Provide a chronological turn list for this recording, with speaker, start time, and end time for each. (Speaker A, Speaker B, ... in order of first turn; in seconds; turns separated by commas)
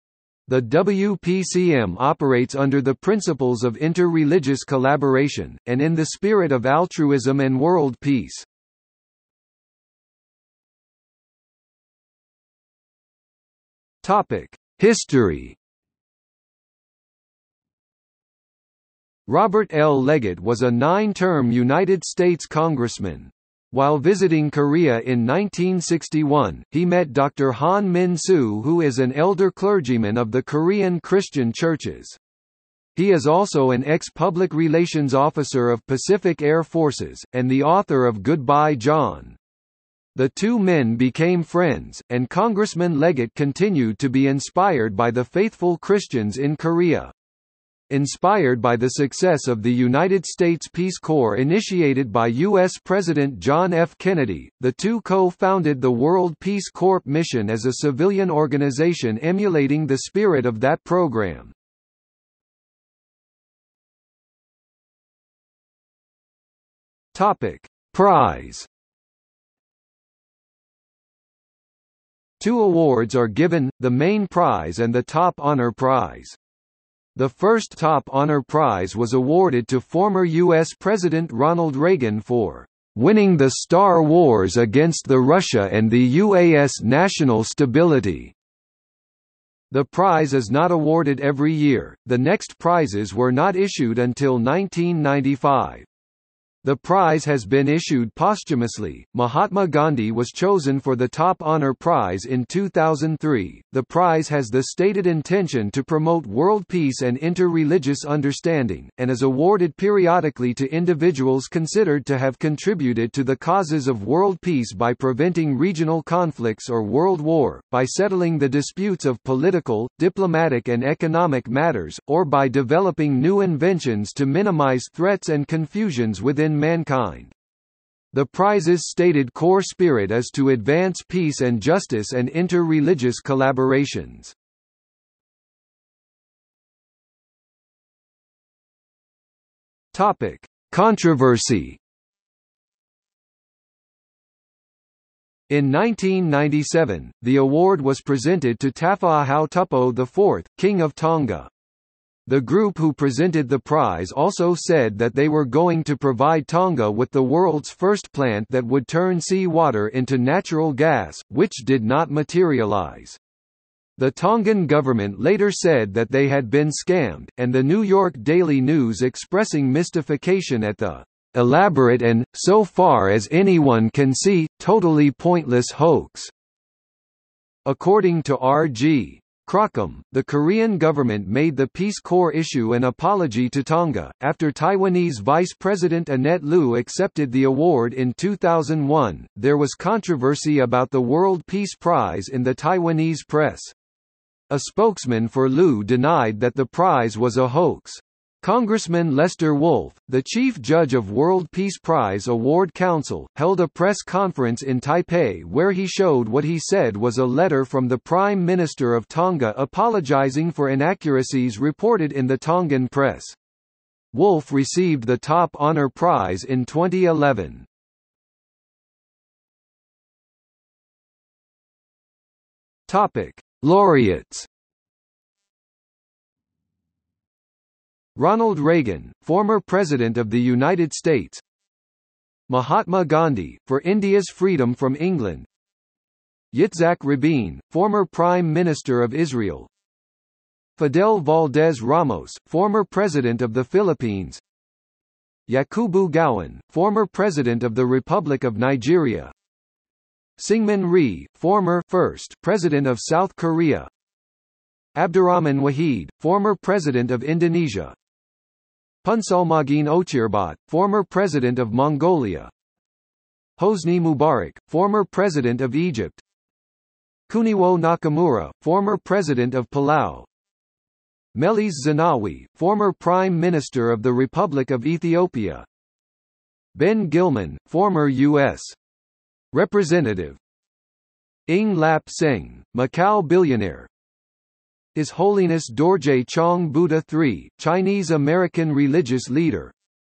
Speaker A: 0.5-8.5, Speaker A: 14.0-15.6, Speaker A: 19.3-32.2, Speaker A: 33.0-39.4, Speaker A: 40.1-47.1, Speaker A: 47.9-61.5, Speaker A: 67.1-68.7, Speaker A: 72.4-76.4, Speaker A: 77.2-88.3, Speaker A: 89.7-95.9, Speaker A: 96.6-127.3, Speaker A: 128.1-134.3, Speaker A: 139.9-141.8, Speaker A: 145.5-151.5, Speaker A: 152.3-163.2, Speaker A: 164.0-176.3, Speaker A: 177.6-193.7, Speaker A: 194.5-213.4, Speaker A: 214.1-217.7, Speaker A: 222.9-224.5, Speaker A: 228.2-231.4, Speaker A: 232.5-235.5, Speaker A: 236.5-239.7, Speaker A: 240.8-244.4, Speaker A: 245.5-249.3, Speaker A: 250.4-253.9, Speaker A: 254.9-257.9, Speaker A: 259.0-262.5, Speaker A: 263.6-266.2, Speaker A: 267.3-270.3, Speaker A: 271.3-275.7, Speaker A: 276.7-278.8, Speaker A: 279.5-280.4, Speaker A: 281.5-283.9, Speaker A: 284.9-289.7